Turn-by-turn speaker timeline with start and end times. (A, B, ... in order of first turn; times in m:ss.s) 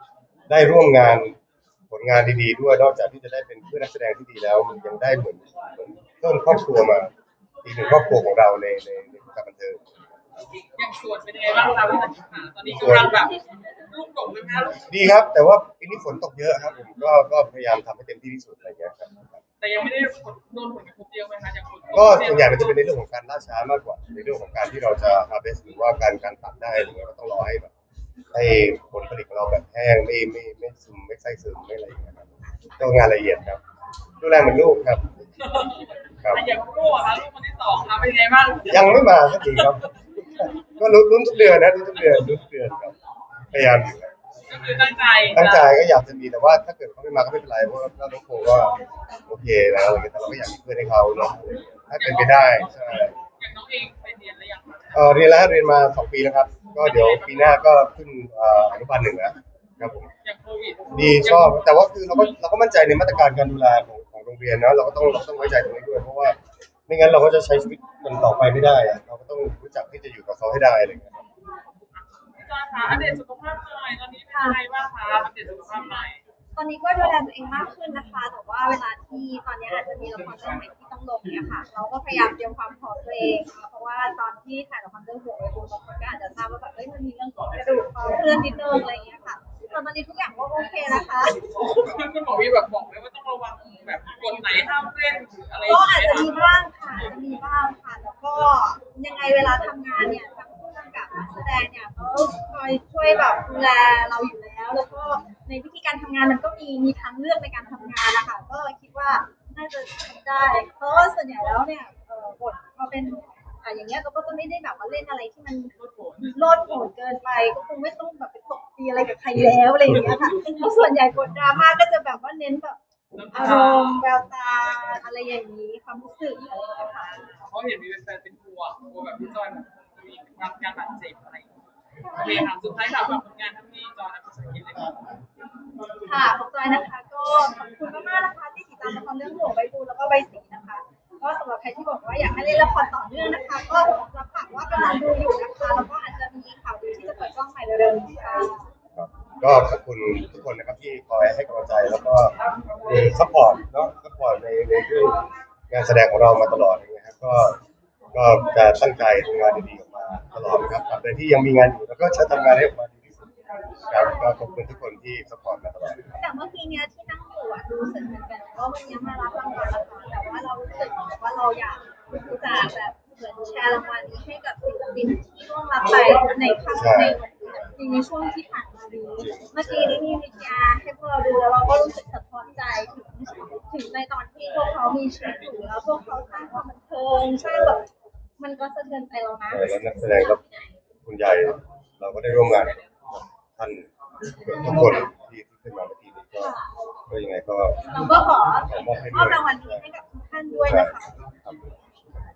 0:00.5-0:01.4 A
0:01.9-0:07.1 A
0:07.6-0:09.8 A
0:10.8-0:14.9 B
0:12.6-0:13.1 A
0:14.9-0:19.4 A
0:19.6-0:22.8 B
0:21.9-0:27.7 A
0:28.3-0:33.6 A
0:34.2-0:35.7 A
0:35.4-0:39.7 B
0:36.2-0:36.4 A
0:38.7-0:43.0 A
0:43.5-0:44.1 A
0:44.5-0:45.7 B
0:45.3-0:53.2 A
0:52.0-0:55.2 B
0:54.9-1:00.1 A
0:56.8-0:57.6 B
1:00.2-1:01.6 B
1:00.9-1:11.3 A
1:11.8-1:16.2 B
1:14.3-1:14.6 C
1:16.6-1:31.4 C
1:31.3-1:36.5 B
1:35.6-1:55.7 C
1:55.8-1:56.8 B
1:56.3-2:02.8 C
2:03.1-2:04.0 B
2:03.3-2:07.4 C
2:07.4-2:11.6 B
2:12.1-2:12.5 C
2:12.1-2:15.0 B
2:15.9-2:28.7 C
2:28.9-2:37.6 A
2:38.1-2:43.3 A
2:43.9-2:46.2 A
2:46.2-3:10.7 C
2:56.7-2:57.7 A
2:59.2-3:00.0 A
3:07.4-3:07.8 A
3:09.5-3:10.4 A
3:11.0-3:16.5 A
3:16.4-3:16.7 C
3:17.1-3:17.9 A
3:17.8-3:21.2 C
3:18.6-3:19.9 A
3:20.6-3:21.7 A